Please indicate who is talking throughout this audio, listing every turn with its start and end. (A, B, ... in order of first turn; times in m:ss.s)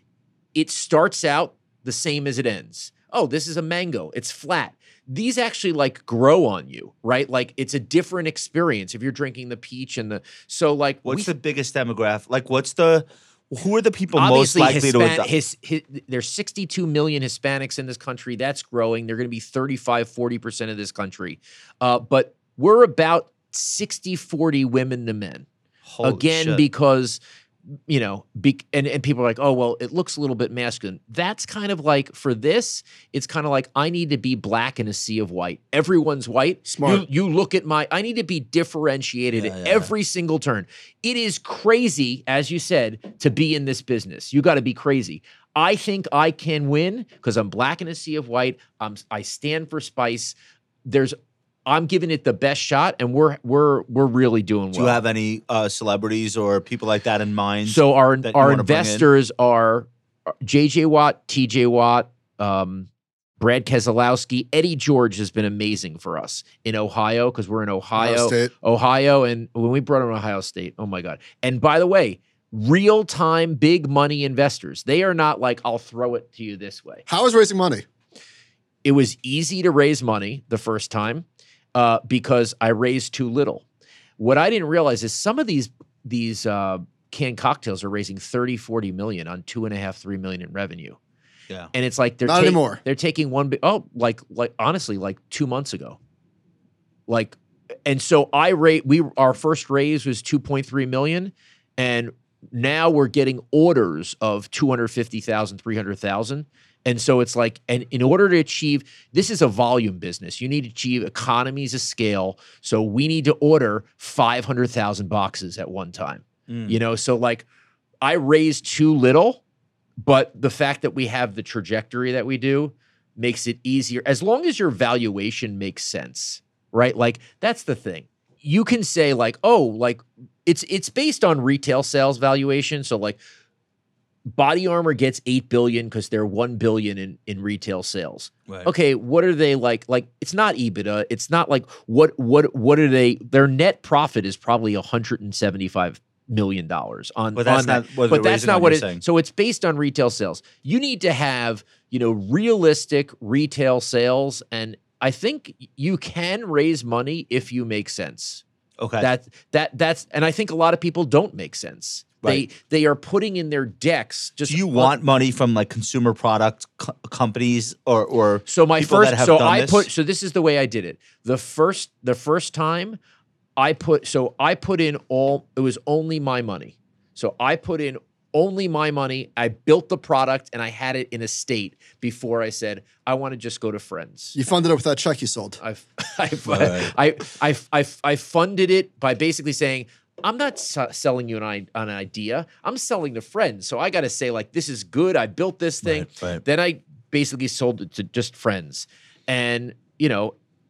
0:00.6-0:11.3 A
0:11.0-0:15.3 B
0:14.2-0:25.5 A
0:25.9-0:26.6 B
0:26.0-0:27.2 A
0:27.9-0:55.0 A
0:36.7-0:37.1 C
0:39.4-0:39.9 B
0:54.8-0:59.1 B
0:57.7-1:02.9 A
1:03.4-1:17.0 A
1:08.0-1:08.5 C
1:17.1-1:17.8 C
1:18.8-1:23.6 A
1:24.2-1:31.0 A
1:31.7-1:36.0 A
1:32.2-1:32.8 C
1:37.1-1:57.4 A
1:56.5-1:56.8 B
1:58.0-1:59.4 A
2:00.0-2:13.2 A
2:14.3-2:38.4 A
2:27.4-2:29.0 B
2:38.8-2:39.1 B
2:39.0-2:45.0 A
2:44.5-2:49.9 B
2:48.5-2:53.0 A
2:53.6-3:04.4 A
3:04.4-3:05.6 C
3:05.6-3:20.3 A
3:06.5-3:06.9 B
3:15.8-3:16.4 B